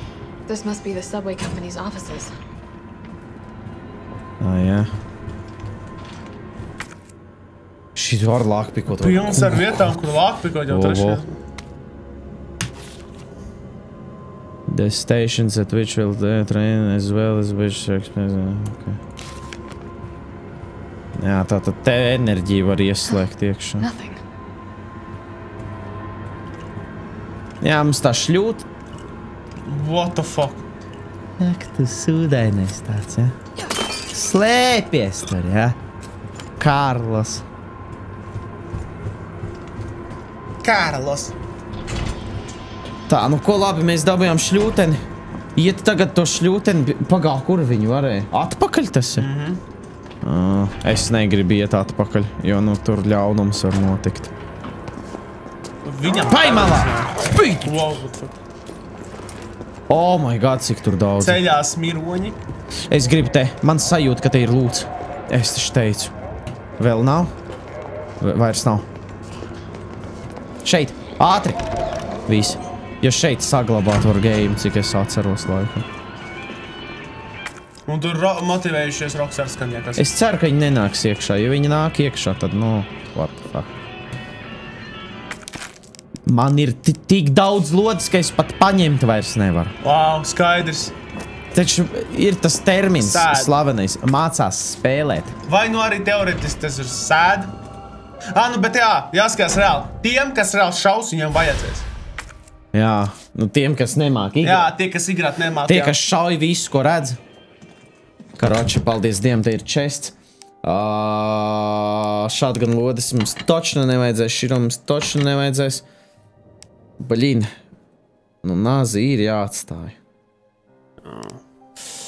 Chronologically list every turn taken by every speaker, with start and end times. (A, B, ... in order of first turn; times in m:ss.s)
0:00.5-0:02.3 A
0:04.4-0:04.9 B
0:08.0-0:10.1 B
0:09.0-0:11.4 C
0:10.7-0:11.2 B
0:14.7-0:19.0 B
0:21.2-0:23.9 B
0:23.8-0:24.2 A
0:27.6-0:28.6 B
0:29.6-0:30.6 C
0:31.4-0:33.3 B
0:34.1-0:35.8 B
0:36.6-0:37.4 B
0:40.6-0:41.3 C
0:43.1-0:45.0 B
0:45.6-0:49.3 B
0:49.2-0:49.6 C
0:50.2-0:54.3 B
0:55.8-0:58.4 C
0:56.2-0:57.9 B
0:59.9-1:01.4 B
1:01.2-1:02.4 C
1:02.9-1:06.1 B
1:06.8-1:07.3 B
1:08.2-1:08.9 B
1:10.6-1:11.6 B
1:12.3-1:15.8 B
1:17.9-1:20.1 C
1:20.0-1:23.7 B
1:26.3-1:29.7 B
1:29.8-1:31.0 C
1:31.5-1:35.3 B
1:33.0-1:33.6 C
1:35.5-1:37.5 C
1:38.3-1:41.9 C
1:42.7-1:44.7 B
1:44.4-1:46.0 C
1:45.7-1:47.2 B
1:48.4-1:55.8 B
1:57.0-1:57.5 B
1:58.4-2:00.0 B
2:01.0-2:01.4 C